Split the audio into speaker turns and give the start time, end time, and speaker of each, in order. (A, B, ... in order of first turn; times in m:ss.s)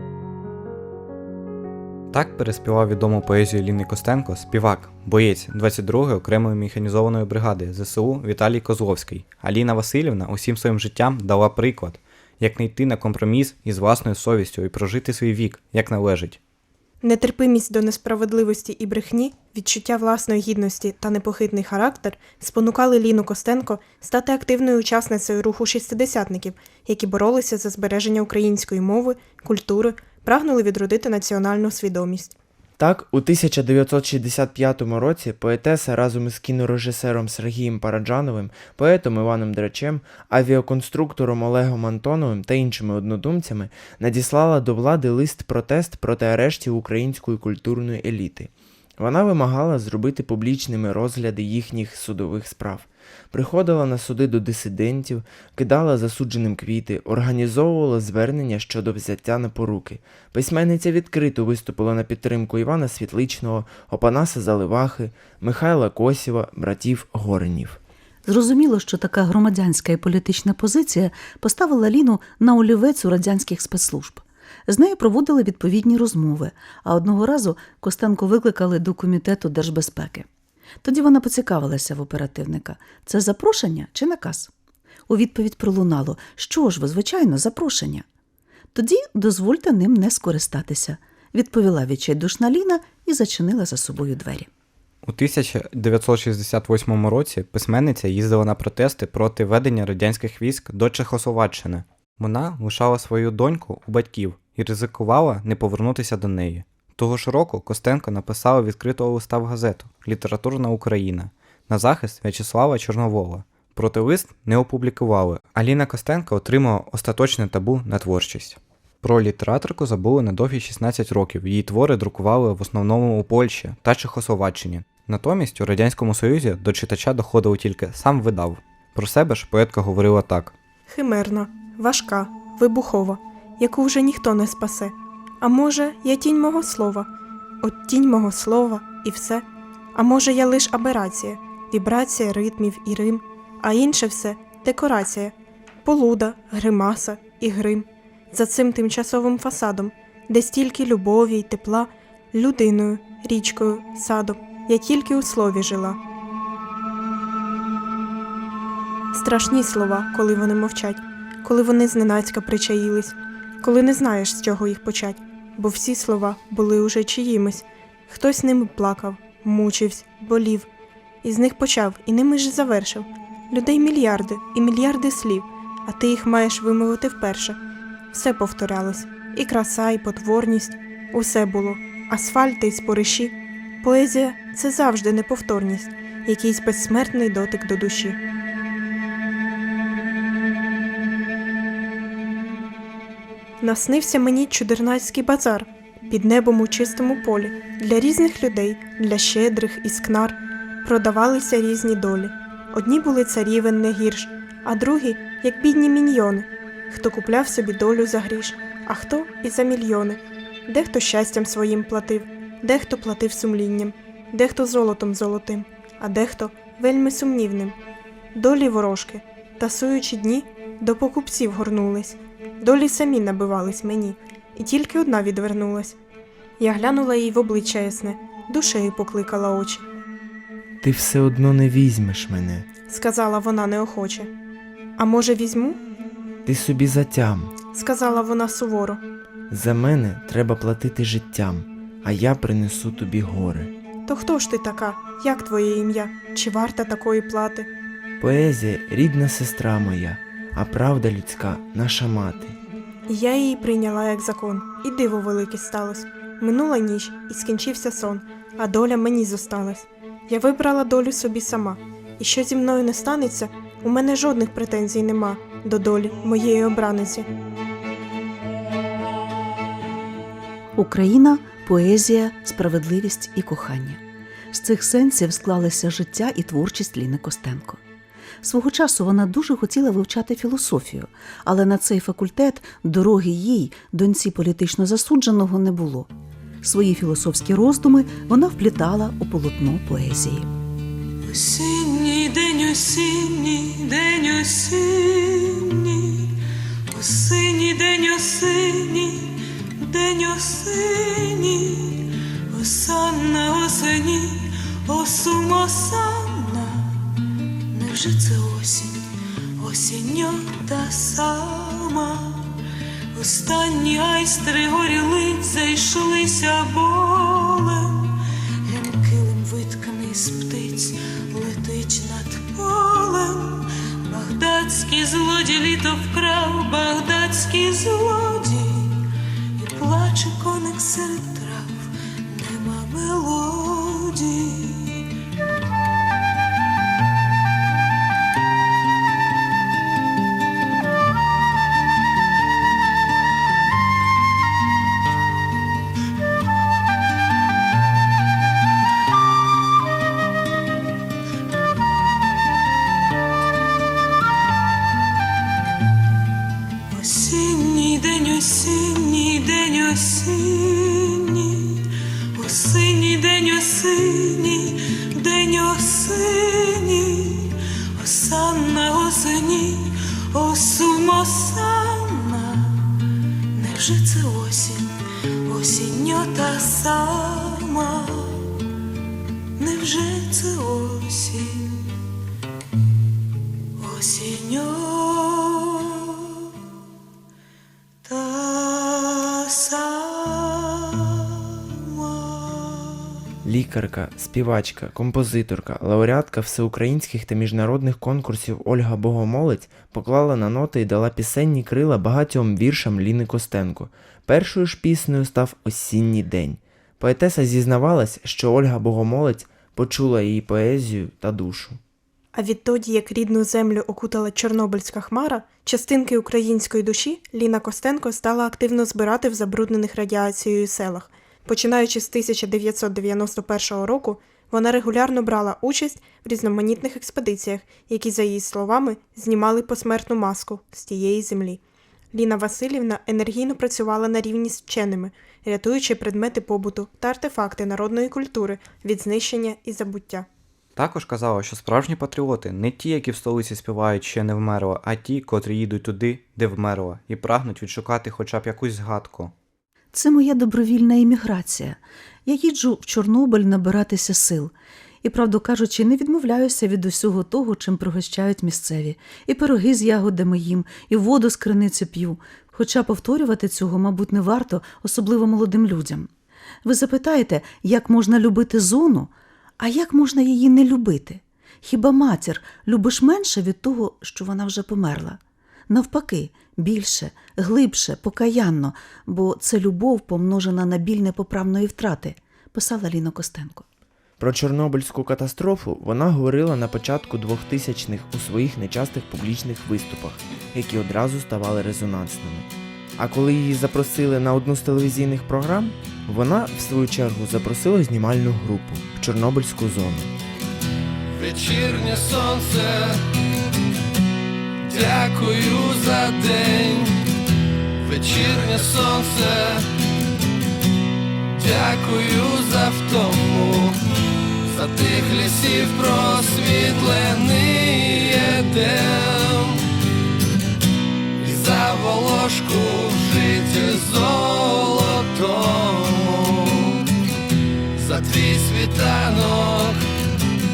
0:02.1-0:16.4 A
0:17.0-0:32.3 B
0:32.8-1:07.8 C
1:08.3-1:20.3 D
1:20.8-1:24.5 D
1:25.1-1:28.1 D
1:28.7-1:34.5 D
1:35.0-2:10.5 A
2:10.9-2:17.1 B
2:17.6-2:25.3 B
2:25.8-2:36.0 B
2:39.1-2:50.7 B
2:51.2-2:57.6 B
2:58.1-3:08.2 B
3:13.6-3:37.8 B
3:38.3-3:46.0 B
3:46.6-3:49.9 B
3:50.8-3:52.7 C
3:52.9-3:54.3 B
3:55.0-3:55.8 B
3:56.4-3:57.5 C
3:57.7-3:59.0 B
3:59.5-4:03.7 C
4:04.1-4:07.7 B
4:08.2-4:12.6 C
4:13.1-4:27.3 B
4:30.8-4:37.8 D
4:38.4-4:46.1 D
4:46.6-4:50.5 D
4:51.2-4:56.4 E
4:56.9-5:07.2 E
5:07.7-5:09.0 E
5:09.6-5:12.6 E
5:13.1-5:29.0 E
5:29.6-5:35.1 E
5:56.9-6:13.0 E
6:13.6-6:18.6 E
6:19.6-6:22.0 E
6:23.8-6:26.5 E
6:28.0-6:33.3 E
6:33.4-6:51.8 C
6:52.3-7:11.6 B
7:12.1-7:20.3 B
7:20.8-7:29.3 A
7:29.9-7:46.1 D
7:46.6-8:03.7 D
8:04.2-8:20.1 C
8:21.1-8:23.0 F
8:24.6-8:27.0 F
8:27.8-8:29.7 F
8:31.4-8:33.8 F
8:34.5-8:39.7 F
8:41.2-8:46.8 F
8:47.8-8:49.8 F